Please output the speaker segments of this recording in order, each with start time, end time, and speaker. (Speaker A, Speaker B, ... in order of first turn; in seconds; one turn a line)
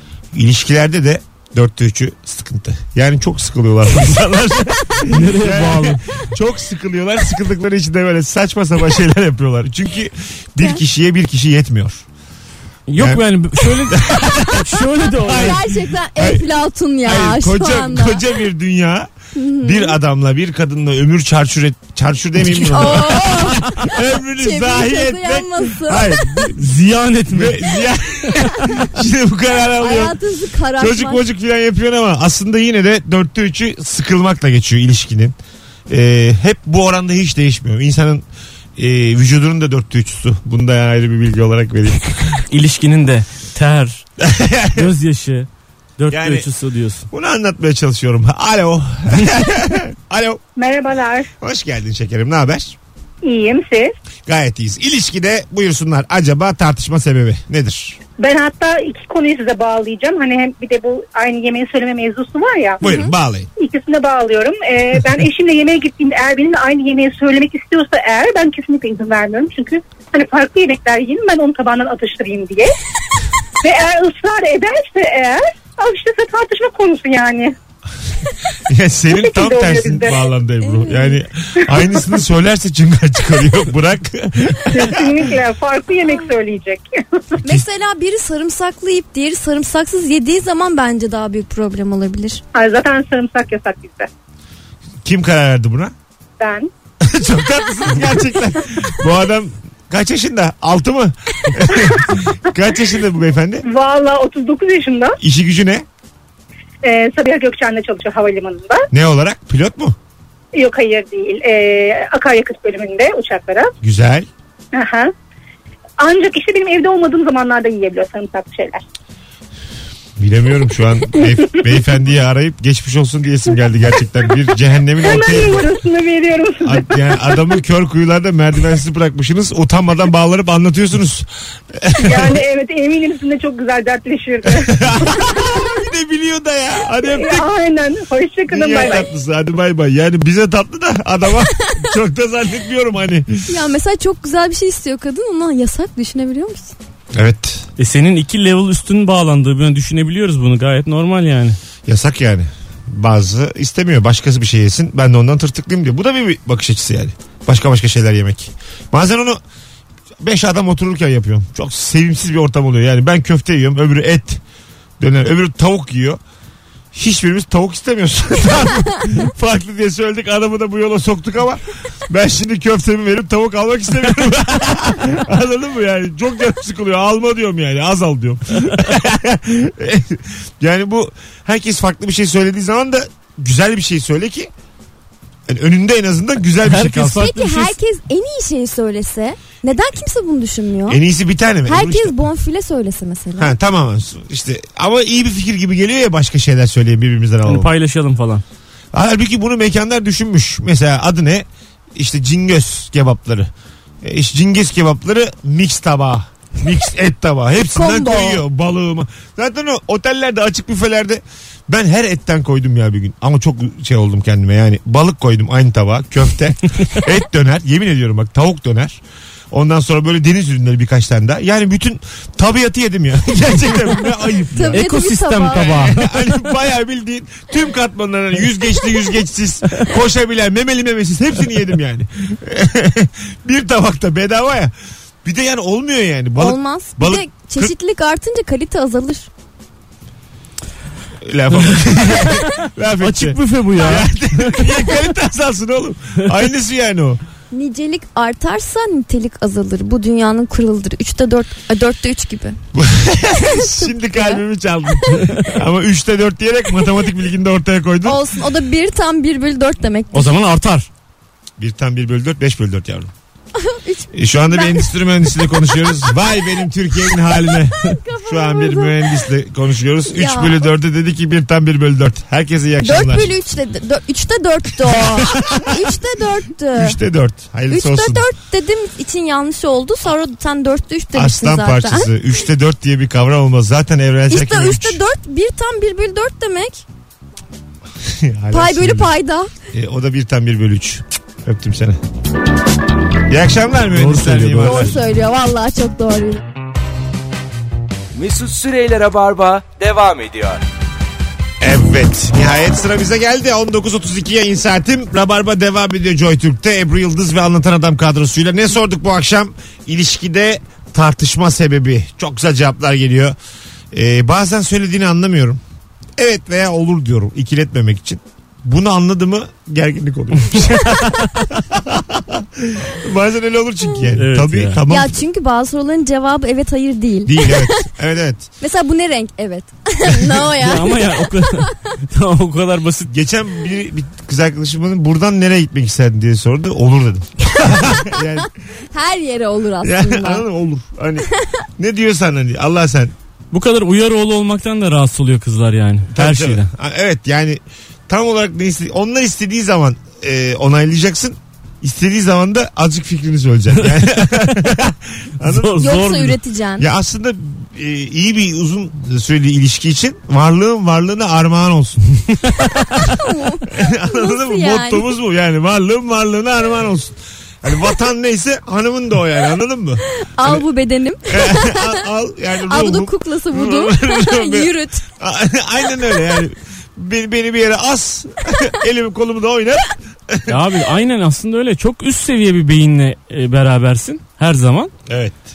Speaker A: 0.3-12.1
Speaker B: 5.1-6.0
Speaker B: 12.9-15.6
Speaker A: 13.0-13.2
Speaker A: 13.8-15.6
Speaker C: 15.2-18.2
Speaker A: 16.1-16.4
Speaker A: 17.0-19.1
Speaker C: 19.3-19.9
Speaker A: 19.6-26.6
Speaker C: 22.4-26.4
Speaker B: 26.6-27.7
Speaker A: 27.3-30.1
Speaker C: 28.4-28.6
Speaker C: 29.8-31.2
Speaker A: 30.8-35.4
Speaker A: 35.9-38.2
Speaker A: 38.8-42.4
Speaker B: 42.5-44.0
Speaker A: 44.2-44.9
Speaker B: 44.7-47.1
Speaker A: 46.1-46.5
Speaker A: 47.1-50.4
Speaker D: 50.6-51.3
Speaker A: 51.4-52.8
Speaker D: 53.2-53.9
Speaker A: 54.2-58.0
Speaker D: 58.2-62.8
Speaker C: 62.8-63.1
Speaker A: 62.8-63.5
Speaker D: 63.6-72.7
Speaker D: 73.6-77.5
Speaker A: 78.6-85.3
Speaker D: 79.1-80.2
Speaker C: 80.6-81.2
Speaker D: 84.7-87.4
Speaker C: 87.4-92.4
Speaker D: 92.5-94.1
Speaker A: 95.0-95.9
Speaker D: 96.4-96.7
Speaker A: 97.0-103.6
Speaker D: 101.8-102.1
Speaker D: 103.6-105.2
Speaker A: 105.2-105.8
Speaker D: 106.8-108.8
Speaker A: 108.9-110.0
Speaker D: 110.5-113.7
Speaker A: 113.8-114.3
Speaker D: 114.7-115.1
Speaker D: 116.0-118.8
Speaker A: 120.2-125.7
Speaker D: 125.0-127.4
Speaker A: 126.6-132.4
Speaker D: 132.0-135.6
Speaker A: 134.4-137.5
Speaker D: 137.1-139.1
Speaker A: 138.5-143.5
Speaker C: 143.5-146.8
Speaker A: 147.1-147.7
Speaker B: 147.8-151.6
Speaker A: 151.8-159.4
Speaker A: 160.2-164.4
Speaker A: 165.0-166.2
Speaker A: 166.9-184.5
Speaker A: 185.5-187.3
Speaker B: 186.6-187.8
Speaker C: 187.1-191.0
Speaker A: 190.9-192.2
Speaker C: 191.7-193.5
Speaker A: 193.4-197.7
Speaker B: 197.4-198.4
Speaker A: 198.9-203.5
Speaker A: 204.0-219.0
Speaker C: 207.7-208.4
Speaker A: 219.5-224.9
Speaker C: 224.5-226.0
Speaker B: 224.7-226.2
Speaker A: 225.5-234.7
Speaker A: 235.2-237.7
Speaker C: 236.4-239.3
Speaker A: 241.2-247.2
Speaker B: 243.0-244.7
Speaker C: 247.5-252.6
Speaker A: 252.8-258.2
Speaker C: 253.5-254.4
Speaker C: 258.0-260.3
Speaker B: 260.1-260.9
Speaker A: 261.6-263.1
Speaker C: 263.6-264.9
Speaker A: 264.1-273.3
Speaker C: 265.7-266.4
Speaker C: 267.2-269.1
Speaker C: 270.1-270.6
Speaker C: 272.8-277.0
Speaker A: 274.9-275.8
Speaker A: 276.7-278.3
Speaker C: 277.7-282.1
Speaker A: 281.1-285.0
Speaker C: 284.3-286.8
Speaker A: 288.1-289.1
Speaker C: 288.5-289.5
Speaker A: 289.7-292.0
Speaker A: 293.2-295.0
Speaker B: 293.9-294.9
Speaker C: 294.6-296.4
Speaker E: 298.1-300.6
Speaker A: 301.6-313.4
Speaker A: 313.9-315.6
Speaker A: 316.2-325.2
Speaker B: 324.1-324.8
Speaker C: 324.9-327.8
Speaker A: 327.2-328.5
Speaker C: 328.6-331.7
Speaker B: 330.5-333.1
Speaker A: 333.1-338.5
Speaker C: 337.7-340.4
Speaker A: 339.8-341.2
Speaker A: 341.8-343.1
Speaker B: 343.5-346.7
Speaker A: 346.1-355.9
Speaker B: 353.8-354.6
Speaker B: 355.4-356.4
Speaker C: 355.8-356.9
Speaker A: 356.8-362.1
Speaker C: 362.9-365.1
Speaker A: 363.7-370.6
Speaker C: 370.2-372.1
Speaker A: 371.3-380.6
Speaker C: 372.7-375.0
Speaker B: 380.5-384.9
Speaker A: 385.1-385.4